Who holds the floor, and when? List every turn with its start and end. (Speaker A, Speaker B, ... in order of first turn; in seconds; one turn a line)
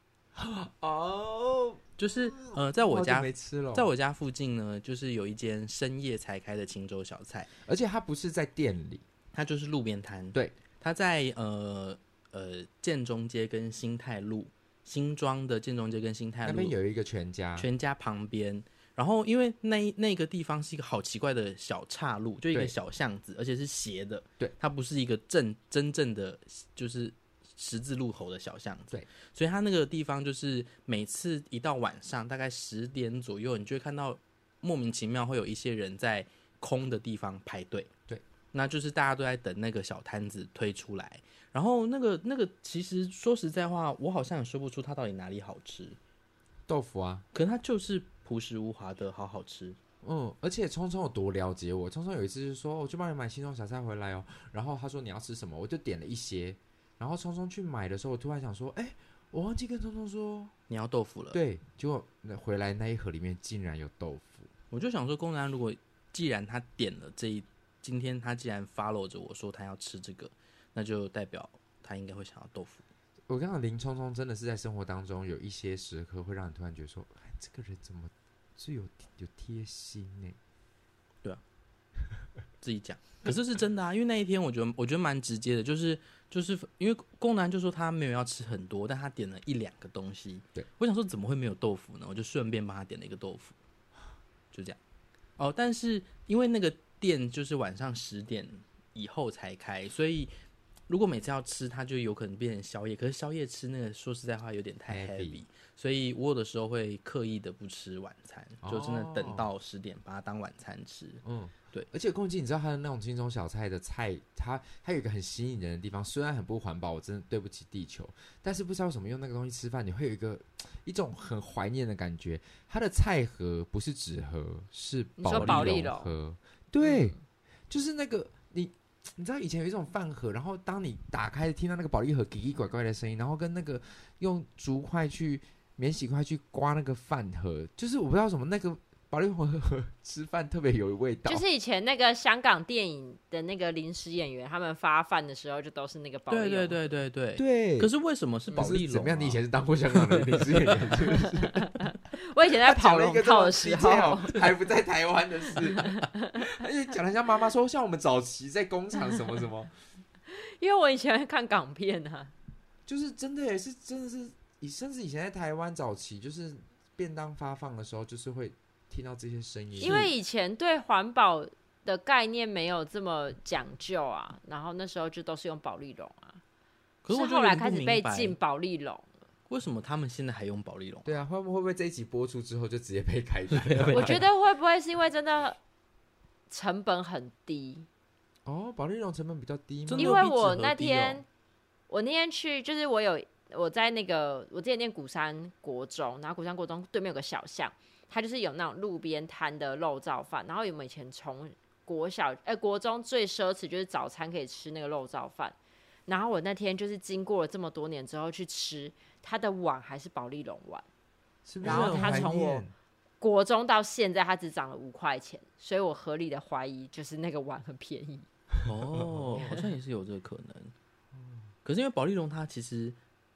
Speaker A: 0.3-3.9
Speaker B: 2.0-7.5
Speaker A: 7.6-9.0
Speaker B: 9.3-16.7
Speaker A: 16.4-17.7
Speaker B: 17.6-37.9
Speaker B: 38.5-46.0
Speaker A: 46.7-47.2
Speaker B: 47.3-49.8
Speaker A: 50.0-60.5
Speaker B: 60.7-61.4
Speaker A: 61.3-64.5
Speaker B: 64.7-72.8
Speaker A: 73.3-80.4
Speaker B: 82.6-93.5
Speaker B: 94.5-94.8
Speaker B: 95.4-100.3
Speaker B: 100.9-111.9
Speaker A: 104.9-105.4
Speaker A: 108.6-109.5
Speaker A: 111.2-127.1
Speaker C: 125.2-126.1
Speaker B: 125.3-125.8
Speaker C: 126.8-127.1
Speaker A: 127.7-141.4
Speaker C: 141.2-146.8
Speaker B: 146.3-150.9
Speaker A: 147.4-147.9
Speaker A: 148.5-151.8
Speaker C: 151.5-154.4
Speaker A: 152.6-159.7
Speaker C: 155.8-156.5
Speaker C: 160.3-162.3
Speaker A: 162.8-170.1
Speaker C: 169.8-176.4
Speaker B: 169.8-170.1
Speaker B: 177.0-178.3
Speaker C: 177.1-179.1
Speaker B: 179.5-181.1
Speaker A: 181.0-184.2
Speaker B: 183.5-184.2
Speaker C: 183.9-185.6
Speaker C: 186.5-187.9
Speaker A: 188.4-190.2
Speaker B: 189.8-191.2
Speaker C: 190.0-191.2
Speaker C: 191.9-205.5
Speaker C: 206.1-210.8
Speaker A: 211.4-212.7
Speaker B: 211.6-212.3
Speaker C: 211.6-212.7
Speaker C: 213.2-218.2
Speaker B: 218.7-220.7
Speaker A: 219.0-219.5
Speaker A: 221.1-221.4
Speaker B: 221.6-223.0